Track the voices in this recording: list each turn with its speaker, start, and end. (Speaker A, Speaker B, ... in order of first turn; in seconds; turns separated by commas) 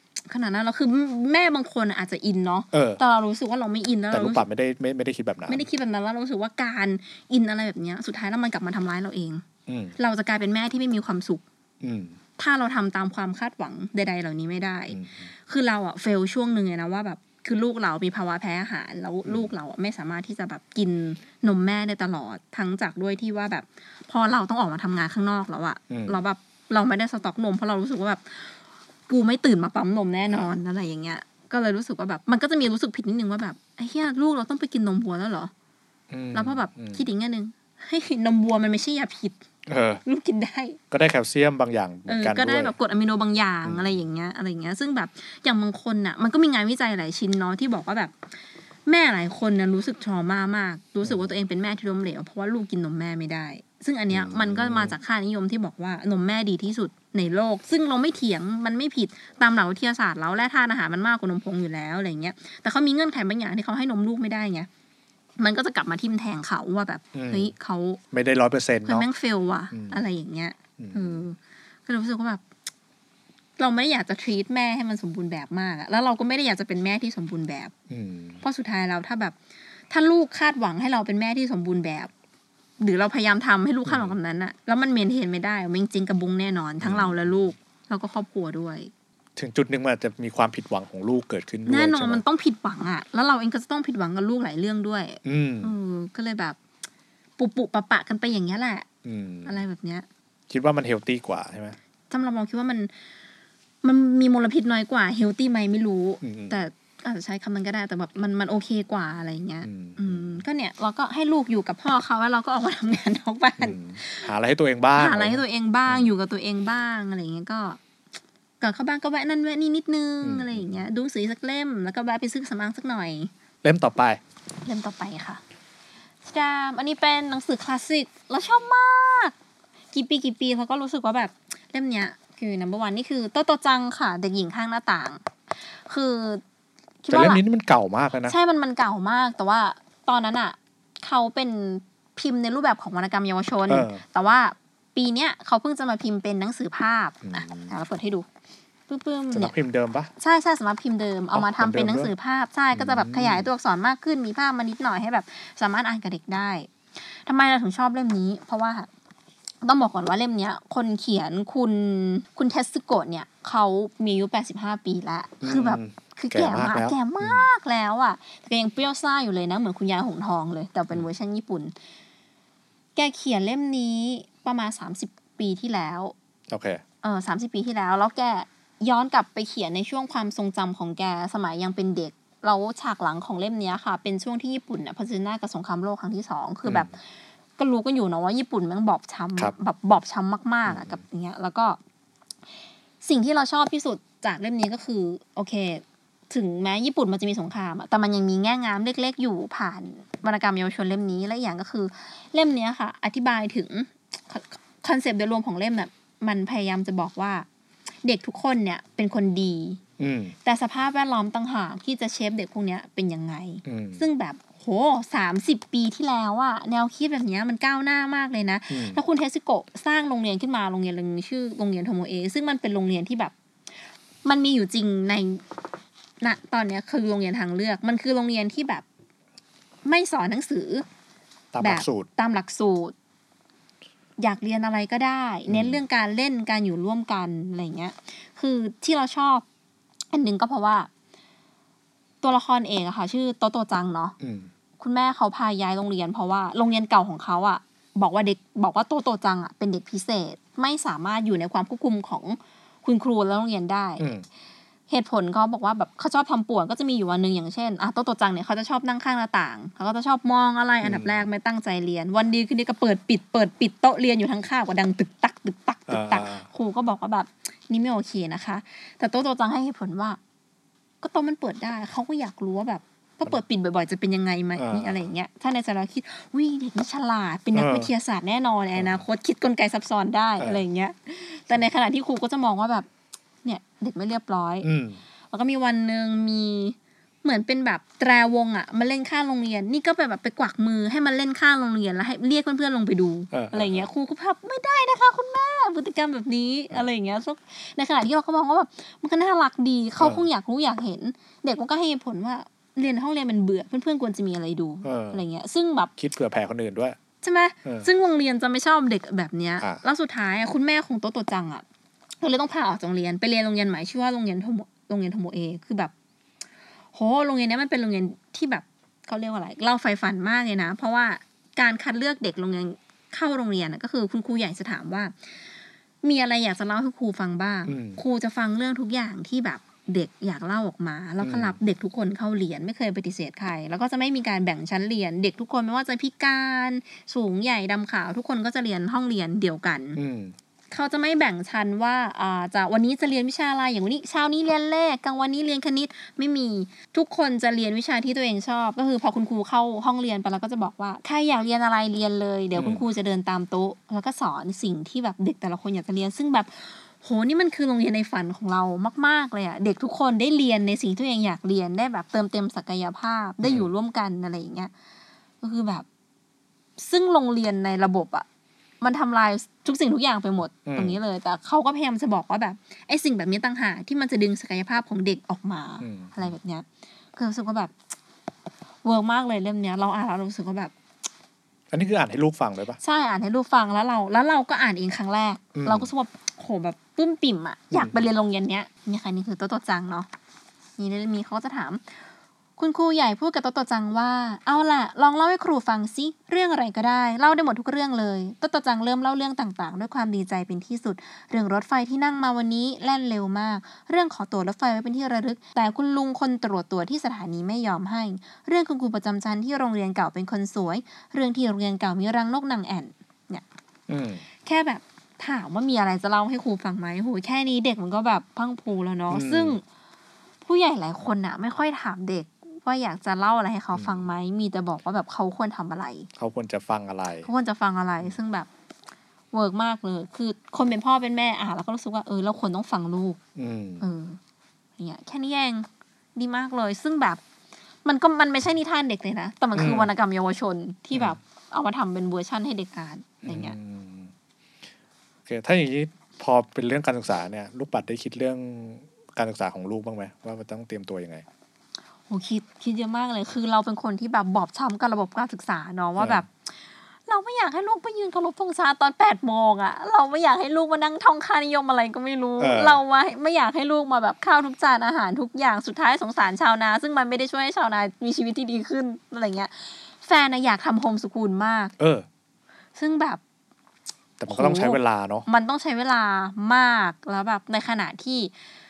Speaker A: 0.3-4.4, Speaker B: 2.7-3.0, Speaker B: 4.1-5.7, Speaker A: 5.5-9.4, Speaker B: 9.7-9.9, Speaker A: 10.0-11.4, Speaker B: 11.8-12.2, Speaker A: 12.4-28.6, Speaker B: 14.9-15.3, Speaker B: 19.2-19.5, Speaker B: 25.9-26.2, Speaker A: 29.1-35.5, Speaker B: 36.1-37.0, Speaker A: 36.3-39.4, Speaker B: 39.7-40.0, Speaker A: 40.0-40.8, Speaker B: 40.9-42.8, Speaker A: 42.1-48.1, Speaker B: 43.6-43.9, Speaker A: 48.9-64.7, Speaker B: 51.0-51.3, Speaker B: 54.1-55.0, Speaker A: 65.4-68.0, Speaker B: 67.1-67.5, Speaker B: 68.1-69.1, Speaker A: 68.9-72.4, Speaker B: 69.7-70.0, Speaker B: 70.8-71.2, Speaker A: 73.6-77.7, Speaker B: 77.9-78.4, Speaker A: 78.4-79.3, Speaker A: 79.9-82.1, Speaker A: 82.8-88.9, Speaker B: 83.8-84.2, Speaker B: 86.8-87.5, Speaker B: 89.4-92.2, Speaker A: 91.7-96.6, Speaker B: 95.2-95.7, Speaker A: 97.4-98.9, Speaker B: 99.0-99.6, Speaker A: 99.5-100.1, Speaker B: 100.5-101.8, Speaker A: 102.1-102.9, Speaker A: 103.8-114.3, Speaker B: 106.2-106.6, Speaker B: 109.6-110.4, Speaker B: 113.6-116.1, Speaker A: 115.0-117.8, Speaker A: 118.6-123.3, Speaker B: 120.2-120.8, Speaker B: 123.6-124.2, Speaker A: 124.7-125.4, Speaker A: 126.3-129.3, Speaker A: 129.9-135.2, Speaker A: 135.9-136.4, Speaker A: 137.0-137.4, Speaker B: 137.1-138.3, Speaker A: 138.3-148.3, Speaker B: 143.7-144.0, Speaker B: 147.2-147.8, Speaker A: 148.9-149.5, Speaker B: 149.3-150.1, Speaker A: 150.2-158.9, Speaker B: 151.3-152.1, Speaker B: 152.7-153.5, Speaker A: 159.6-171.7, Speaker B: 165.4-167.5, Speaker A: 173.0-176.1, Speaker B: 176.5-176.8, Speaker A: 177.0-187.0, Speaker B: 186.7-186.9, Speaker A: 187.6-191.8, Speaker B: 190.7-191.0, Speaker A: 193.0-207.5, Speaker A: 208.0-209.8, Speaker B: 210.0-210.3, Speaker A: 210.4-223.3, Speaker B: 213.7-214.0, Speaker B: 218.7-219.0, Speaker A: 224.2-225.4, Speaker A: 226.2-228.8, Speaker A: 229.8-230.8, Speaker B: 231.5-232.1, Speaker A: 231.6-232.9, Speaker A: 234.2-239.5, Speaker B: 235.5-235.8, Speaker A: 240.1-240.9, Speaker A: 242.2-244.2, Speaker B: 244.2-244.5, Speaker A: 244.8-254.1, Speaker B: 254.0-254.2, Speaker A: 254.9-270.2, Speaker B: 260.8-261.2, Speaker B: 265.9-266.4, Speaker A: 271.0-282.9, Speaker B: 274.6-275.1, Speaker B: 277.5-277.9, Speaker B: 278.7-279.0, Speaker A: 283.4-284.7, Speaker B: 284.6-285.0, Speaker A: 285.3-305.9, Speaker B: 293.3-293.9, Speaker B: 300.0-300.3, Speaker B: 304.8-305.2, Speaker B: 306.0-307.0, Speaker A: 307.2-311.6, Speaker A: 312.2-315.9, Speaker A: 316.9-325.1, Speaker A: 326.0-340.0, Speaker B: 327.7-328.0, Speaker B: 331.2-331.6, Speaker B: 340.0-340.3, Speaker A: 340.7-364.7, Speaker B: 352.6-352.8, Speaker B: 363.4-363.7, Speaker A: 365.4-365.9, Speaker A: 366.8-368.3, Speaker A: 368.8-377.7, Speaker B: 370.7-371.0, Speaker B: 375.8-376.3, Speaker A: 378.8-380.7, Speaker B: 381.7-382.8, Speaker A: 382.8-390.1, Speaker B: 385.6-385.9, Speaker B: 387.7-388.0, Speaker A: 390.8-391.9, Speaker A: 392.6-413.4, Speaker B: 413.9-414.2, Speaker A: 414.4-419.6, Speaker B: 419.1-419.6, Speaker A: 420.4-426.1, Speaker B: 423.7-424.0, Speaker B: 426.2-427.3, Speaker A: 427.2-428.5, Speaker A: 429.3-433.2, Speaker B: 433.4-433.9, Speaker A: 433.8-434.2, Speaker A: 434.8-437.2, Speaker A: 437.9-443.6, Speaker B: 439.6-439.9, Speaker B: 443.2-444.1, Speaker B: 445.3-451.2, Speaker A: 452.1-456.3, Speaker B: 456.0-456.2, Speaker A: 457.1-471.7, Speaker B: 462.4-462.8, Speaker B: 471.8-472.1, Speaker A: 472.8-473.2, Speaker B: 474.2-475.3, Speaker A: 474.3-478.3